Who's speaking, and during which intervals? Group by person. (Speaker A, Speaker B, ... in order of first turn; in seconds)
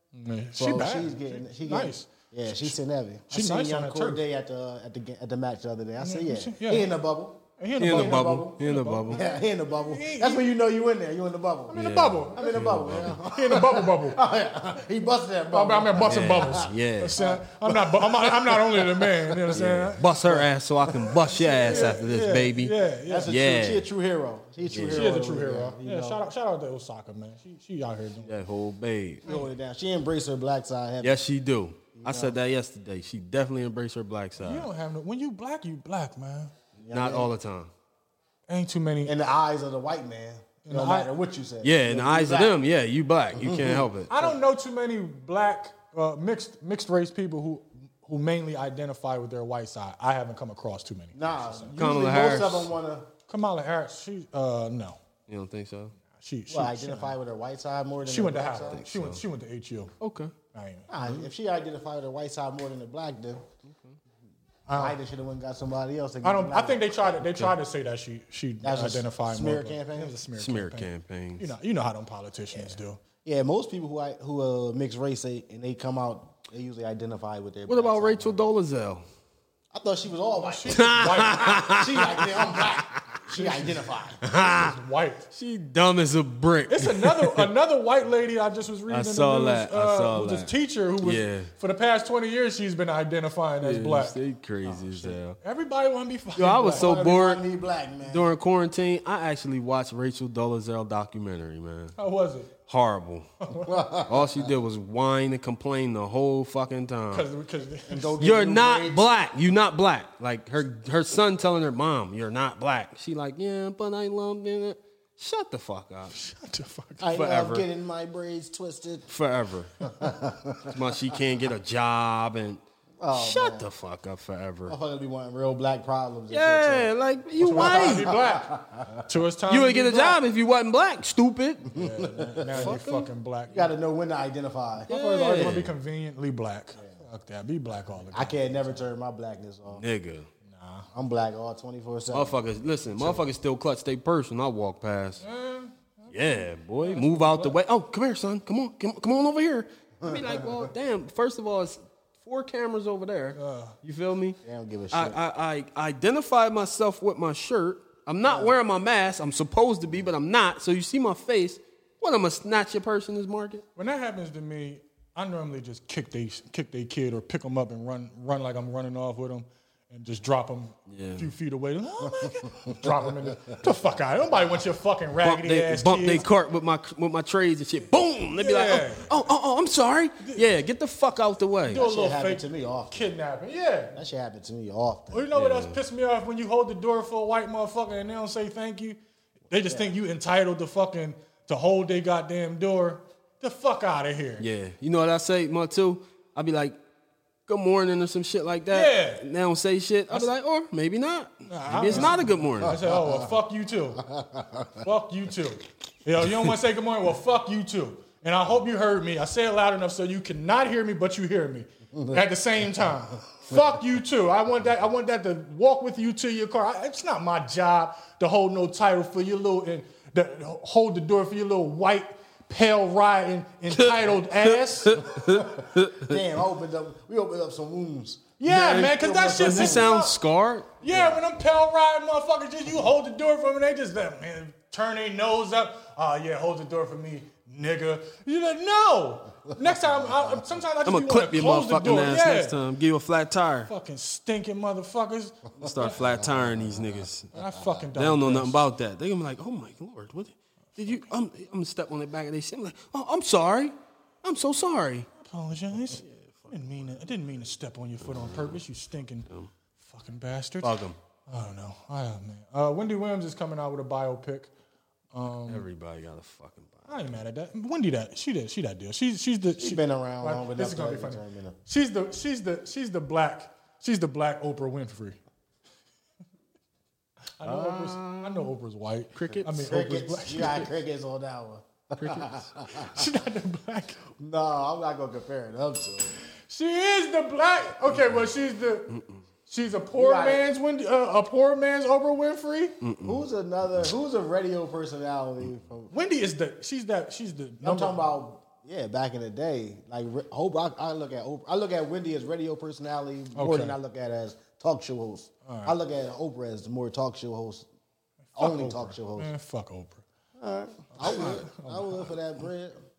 Speaker A: 0.1-2.8, 3.3-4.2, 6.0-6.9, 7.6-10.5, 11.7-14.2, 15.5-20.0, 21.4-23.3, 24.9-28.3, 34.4-36.5, 38.5-39.1, 40.6-41.1, 44.1-52.2, 53.3-55.0, 56.2-57.2, 58.0-59.9, 60.5-60.9, 64.7-65.0, 66.2-73.0, 80.4-81.8, 83.3-85.3, 86.7-97.0, 102.0-102.5, 103.5-103.9, 107.1-108.2, 116.1-117.0, 127.4-130.2, 131.7-133.8, 134.9-138.8, 140.5-140.9, 145.2-147.6, 153.3-153.8, 163.8-176.2, 178.4-179.1, 181.7-184.0, 185.1-189.0, 189.5-194.5, 198.7-199.2, 201.5-204.0, 204.8-225.1, 228.4-230.2, 230.8-242.6, 243.7-246.0, 247.3-248.6, 255.2-259.3, 259.8-260.8, 261.3-264.5, 265.1-265.7, 266.9-275.2, 277.4-280.7, 282.9-284.0, 286.5-288.9, 289.5-292.8, 295.9-298.0, 303.4-303.8, 305.5-305.8, 308.3-310.0, 311.0-312.1
Speaker B: 0.6-11.8, 12.3-22.1, 23.1-26.2, 29.2-31.2, 32.0-32.4, 36.8-37.3, 39.0-42.6, 43.4-44.3, 51.1-53.1, 56.5-58.9, 60.9-63.4, 64.8-66.8, 68.6-70.1, 72.5-78.4, 79.7-84.2, 96.7-98.3, 103.7-104.5, 107.9-109.1, 117.0-119.1, 119.9-120.7, 123.0-123.7, 124.7-129.0, 131.7-132.9, 133.5-135.7, 138.1-139.8, 140.9-142.3, 150.1-150.5, 154.4-155.2, 181.7-183.1, 183.9-185.3, 201.9-203.3, 204.1-204.7, 211.9-212.2, 226.0-229.9, 230.8-231.2, 246.0-247.0, 269.6-271.6, 279.6-282.9, 284.2-286.1, 290.0-290.4, 293.0-295.9, 297.6-307.7, 308.4-309.3, 310.4-312.8
Speaker C: 7.8-9.2, 11.7-13.2, 16.0-17.2, 19.5-23.9, 24.7-25.1, 28.2-29.2, 31.0-34.7, 36.9-37.7, 41.6-44.1, 51.8-52.7, 55.3-56.0, 58.6-59.2, 60.0-60.4, 63.7-64.0, 67.2-67.5, 70.4-71.5, 77.7-79.0, 80.7-83.2, 84.2-84.8, 85.3-87.5, 88.9-91.5, 93.6-95.4, 96.3-97.4, 98.0-102.0, 102.7-103.3, 104.1-107.3, 108.2-116.1, 117.1-117.7, 119.1-119.7, 120.7-124.8, 126.3-128.2, 129.5-131.7, 132.5-133.1, 134.9-135.7, 139.7-140.3, 142.1-145.2, 146.1-154.4, 154.9-163.6, 170.9-171.3, 175.2-181.8, 185.3-185.8, 194.4-196.8, 197.5-202.8, 223.7-226.2, 228.5-230.7, 240.8-243.7, 245.6-247.4, 247.9-255.1, 255.8-256.9, 258.0-258.6, 260.6-261.0, 265.5-267.1, 277.4-278.5, 279.1-279.7, 282.0-282.4, 288.9-289.2, 292.8-293.2